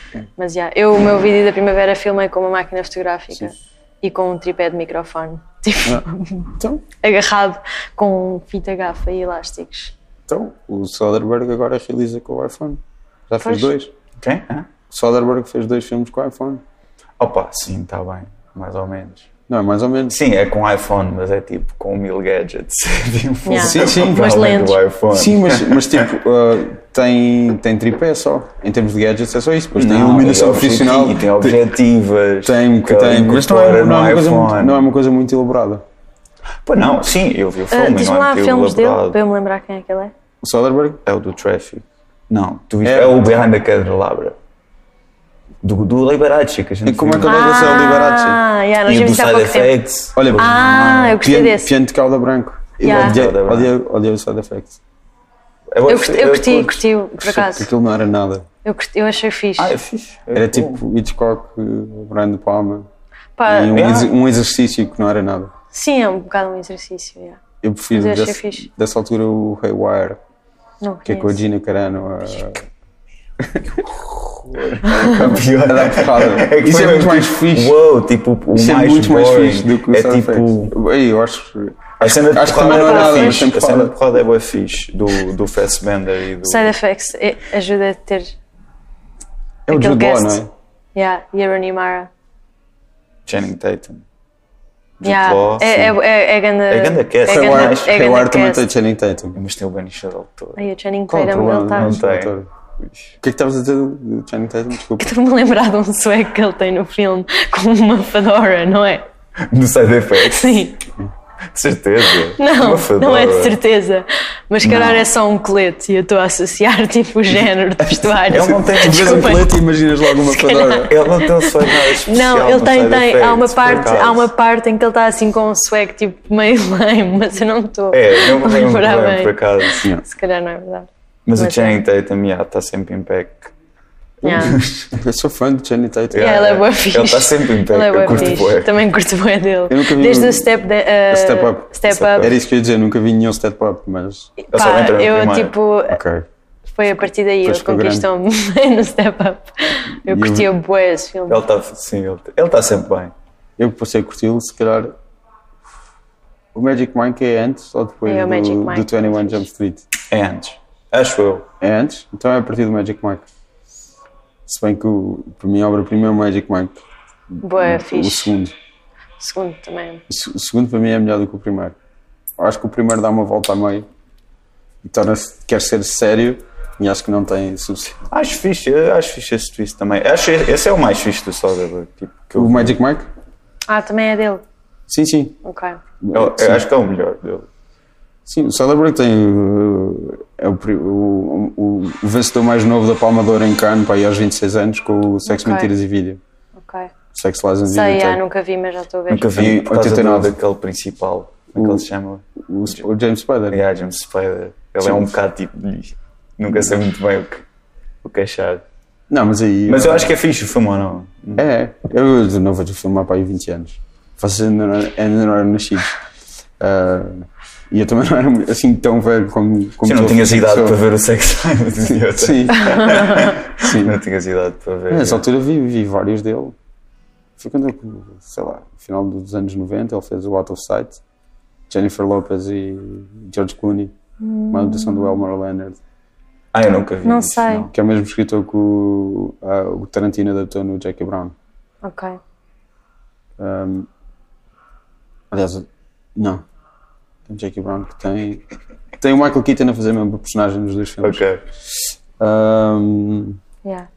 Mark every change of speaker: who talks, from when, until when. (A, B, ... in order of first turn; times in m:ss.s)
0:00.4-0:09.9 A
0:06.6-0:06.8 B
0:10.3-0:13.9 B
0:13.4-0:13.7 A
0:14.2-0:14.7 C
0:14.9-0:16.6 B
0:17.2-0:19.3 C
0:19.5-0:20.2 B
0:20.1-0:26.1 C
0:23.4-0:24.8 A
0:23.5-0:24.4 B
0:25.1-0:31.6 B
0:29.7-0:34.9 C
0:32.4-0:35.8 B
0:36.6-0:39.2 C
0:37.7-0:40.1 A
0:40.4-0:41.0 B
0:41.1-0:44.4 C
0:42.8-0:43.4 B
0:45.6-0:47.9 C
0:46.8-0:48.4 B
0:47.2-0:49.8 A
0:48.9-0:51.2 C
0:50.1-0:50.6 B
0:50.4-0:51.7 A
0:51.2-0:54.8 B
0:52.8-0:53.7 C
0:52.8-0:53.2 A
0:55.7-0:56.8 C
0:55.9-0:57.7 A
0:57.2-0:58.4 B
0:58.6-0:59.7 A
0:59.6-1:00.8 C
1:00.3-1:02.9 B
1:03.4-1:03.9 A
1:03.5-1:05.5 B
1:03.7-1:04.1 C
1:05.7-1:07.4 A
1:07.6-1:10.2 B
1:07.9-1:08.7 A
1:10.8-1:11.4 A
1:11.1-1:12.6 B
1:13.4-1:17.8 B
1:14.4-1:20.7 C
1:18.5-1:24.0 B
1:22.0-1:26.7 C
1:22.7-1:23.4 A
1:26.4-1:28.3 A
1:29.7-1:30.5 B
1:29.7-1:30.4 A
1:30.9-1:32.1 A
1:33.3-1:34.0 C
1:35.0-1:36.0 C
1:35.0-1:38.6 A
1:36.7-1:38.0 C
1:37.3-1:39.4 B
1:39.4-1:40.6 C
1:40.6-1:42.0 A
1:41.1-1:42.5 B
1:41.7-1:42.4 C
1:43.2-1:45.1 B
1:45.0-1:49.1 A
1:49.4-1:50.6 C
1:50.2-1:50.8 A
1:51.5-1:53.6 C
1:52.4-2:11.8 A
1:54.6-1:55.1 C
1:58.2-1:59.6 C
1:58.3-2:01.0 B
2:00.8-2:04.3 C
2:07.9-2:09.9 C
2:11.2-2:13.5 C
2:14.2-2:14.6 A
2:14.2-2:14.9 C
2:14.3-2:16.4 B
2:16.1-2:18.8 C
2:16.2-2:22.3 A
2:19.7-2:20.6 B
2:21.1-2:24.3 B
2:22.0-2:22.4 C
2:24.4-2:26.0 A
2:24.5-2:25.6 C
2:25.9-2:26.3 B
2:26.7-2:31.4 A
2:27.4-2:28.1 B
2:30.0-2:30.5 B
2:31.3-2:33.1 C
2:33.6-2:35.0 B
2:36.5-2:39.9 B
2:38.1-2:39.4 A
2:40.1-2:41.5 C
2:41.6-2:43.2 B
2:44.4-2:46.8 B
2:47.4-2:48.3 A
2:47.5-2:48.5 B
2:49.2-2:50.0 A
2:50.1-2:51.8 B
2:52.4-2:53.9 B
2:54.8-2:58.0 B
2:58.1-3:02.8 C
3:02.4-3:03.1 B
3:03.7-3:04.4 A
3:04.9-3:05.4 B
3:05.4-3:05.8 A
3:06.0-3:06.6 B
3:06.1-3:07.5 C
3:08.2-3:16.2 B
3:15.2-3:15.7 A
3:16.6-3:16.9 A
3:17.1-3:18.2 B
3:17.7-3:19.4 A
3:19.1-3:22.8 C
3:19.3-3:20.4 B
3:21.6-3:21.8 B
3:22.4-3:23.6 B
3:23.5-3:27.4 C
3:24.8-3:25.1 B
3:28.0-3:28.6 C
3:29.1-3:30.1 B
3:29.7-3:31.4 C
3:31.4-3:36.0 B
3:36.6-3:40.8 B
3:39.8-3:45.2 C
3:41.9-3:43.1 B
3:42.7-3:43.3 A
3:43.6-3:44.0 B
3:44.9-3:46.6 B
3:47.4-3:51.0 B
3:51.7-3:53.9 B
3:54.2-3:55.2 A
3:54.5-3:55.8 B
3:56.5-3:57.7 C
3:57.0-3:57.7 A
3:57.7-4:01.4 B
4:01.8-4:02.2 A
4:03.4-4:03.9 B
4:05.3-4:06.4 B
4:07.3-4:08.4 B
4:09.0-4:13.4 B
4:11.0-4:11.4 C